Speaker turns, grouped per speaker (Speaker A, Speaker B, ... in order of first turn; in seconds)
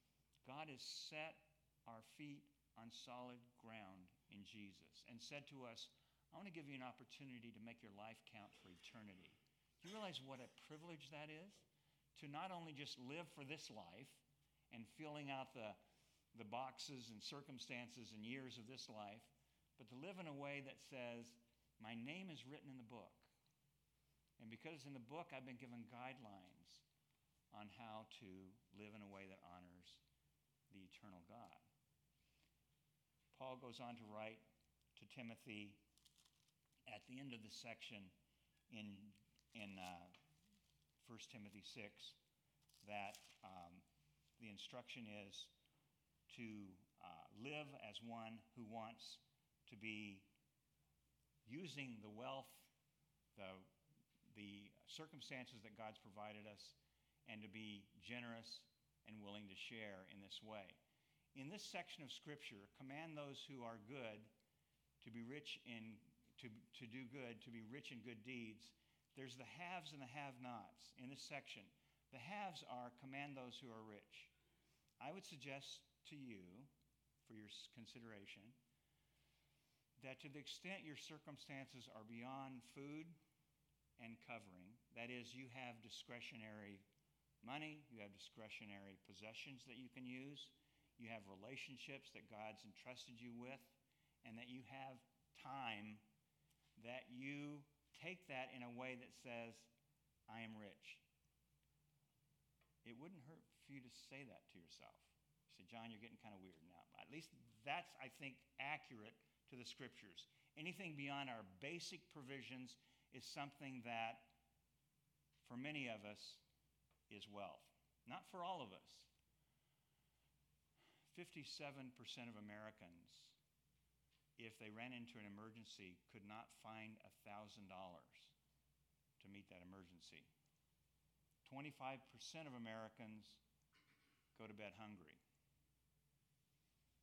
Speaker A: 0.4-15.8, 16.3-23.3, 24.4-26.8, 27.5-30.0, 30.7-31.6, 33.3-35.8, 36.9-38.1, 38.7-40.2, 41.0-42.2, 42.8-43.8, 44.4-45.5, 46.3-50.3, 51.4-52.7, 53.3-53.7, 54.3-60.8, 61.3-64.3, 65.0-74.3, 75.0-76.7, 77.2-78.6, 80.0-83.2, 84.0-86.8, 87.4-96.0, 96.8-99.7, 100.3-101.0, 102.8-114.4, 115.4-116.4, 117.1-119.1, 121.1-123.4, 124.4-128.3, 129.2-130.3, 131.4-133.4, 134.3-135.2